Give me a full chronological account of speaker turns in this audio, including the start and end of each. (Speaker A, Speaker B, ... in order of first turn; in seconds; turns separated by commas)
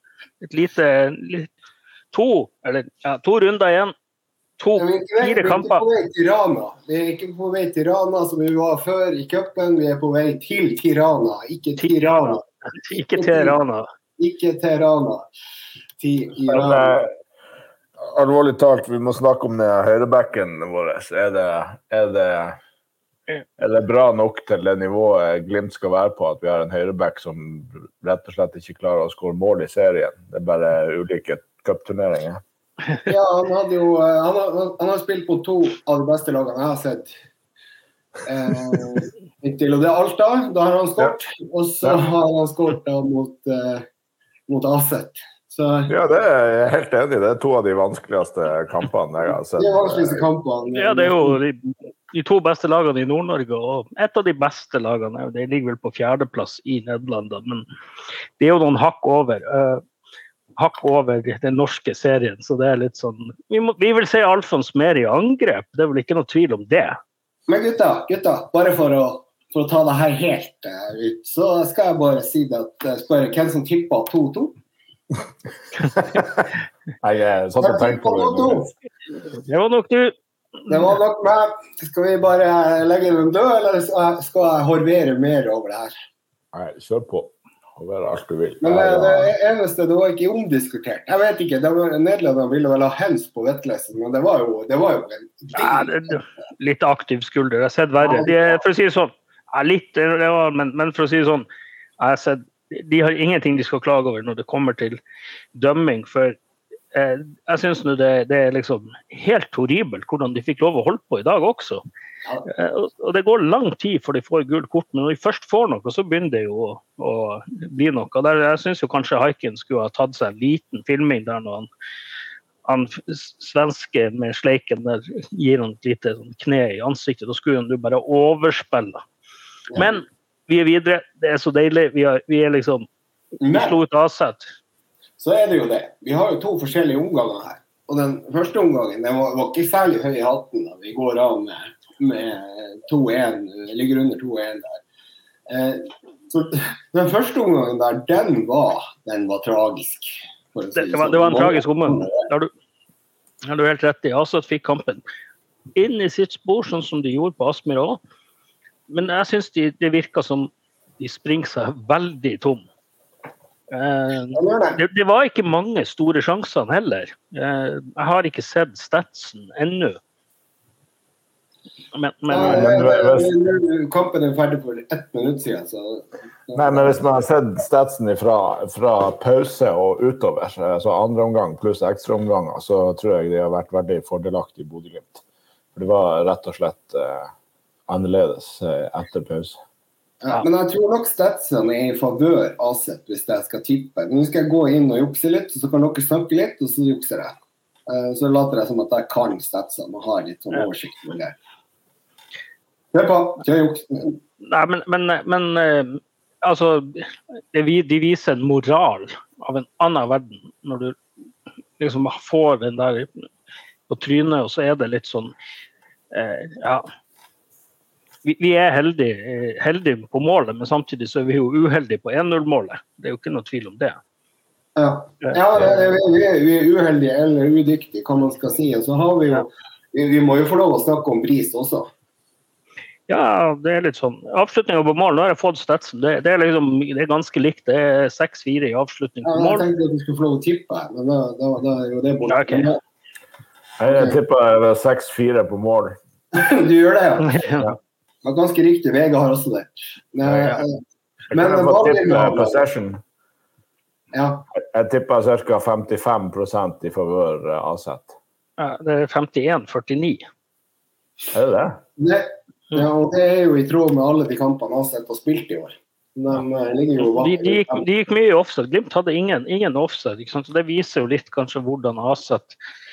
Speaker A: 0.4-1.5, Speaker A: 2.1-3.9, Speaker A: 4.6-5.8, Speaker B: 4.8-13.6, Speaker A: 11.8-13.9, Speaker B: 14.2-15.3, Speaker B: 16.0-17.0, Speaker C: 16.5-17.1, Speaker C: 18.0-22.6, Speaker C: 23.6-32.4, Speaker B: 33.1-37.1, Speaker B: 38.2-43.9, Speaker B: 44.5-45.9, Speaker C: 45.9-50.3, Speaker B: 49.6-51.4, Speaker A: 50.7-57.6, Speaker A: 58.4-59.8, Speaker A: 60.6-67.0, Speaker B: 67.5-74.6, Speaker C: 76.1-76.5, Speaker C: 77.0-78.7, Speaker B: 77.6-78.7, Speaker A: 79.3-80.2, Speaker A: 80.7-80.9, Speaker B: 80.7-85.9, Speaker C: 86.5-89.3, Speaker B: 88.6-96.1, Speaker A: 95.5-101.5, Speaker B: 98.0-98.6, Speaker A: 102.0-105.0, Speaker A: 105.5-106.4, Speaker A: 106.9-111.8, Speaker A: 112.5-121.7, Speaker A: 122.7-129.0, Speaker A: 129.8-132.9, Speaker B: 133.4-133.8, Speaker A: 133.5-134.5, Speaker B: 135.2-144.8, Speaker B: 145.5-152.3, Speaker A: 150.8-152.5, Speaker A: 153.5-155.0, Speaker A: 155.8-158.0, Speaker A: 158.9-162.7, Speaker A: 163.7-170.0, Speaker B: 164.3-164.8, Speaker A: 171.9-173.0, Speaker B: 172.3-177.0, Speaker C: 172.3-173.4, Speaker C: 176.6-185.2, Speaker C: 185.8-187.3, Speaker C: 187.9-189.6, Speaker B: 190.2-201.4, Speaker B: 202.9-204.2, Speaker A: 204.4-211.0, Speaker A: 211.8-213.1, Speaker A: 213.9-215.3, Speaker A: 216.1-216.8, Speaker A: 218.2-224.0, Speaker B: 224.8-231.9, Speaker A: 225.2-225.9, Speaker A: 233.1-239.7, Speaker B: 239.2-242.8, Speaker A: 242.3-242.7, Speaker C: 243.8-246.0, Speaker B: 243.9-244.2, Speaker B: 246.3-247.4, Speaker A: 247.2-247.8, Speaker B: 248.2-250.8, Speaker A: 250.3-250.6, Speaker C: 251.3-253.0, Speaker B: 251.3-252.6, Speaker B: 254.1-254.5, Speaker C: 254.5-258.1, Speaker A: 258.6-260.2, Speaker C: 261.3-261.8, Speaker B: 262.0-267.9, Speaker A: 267.0-272.6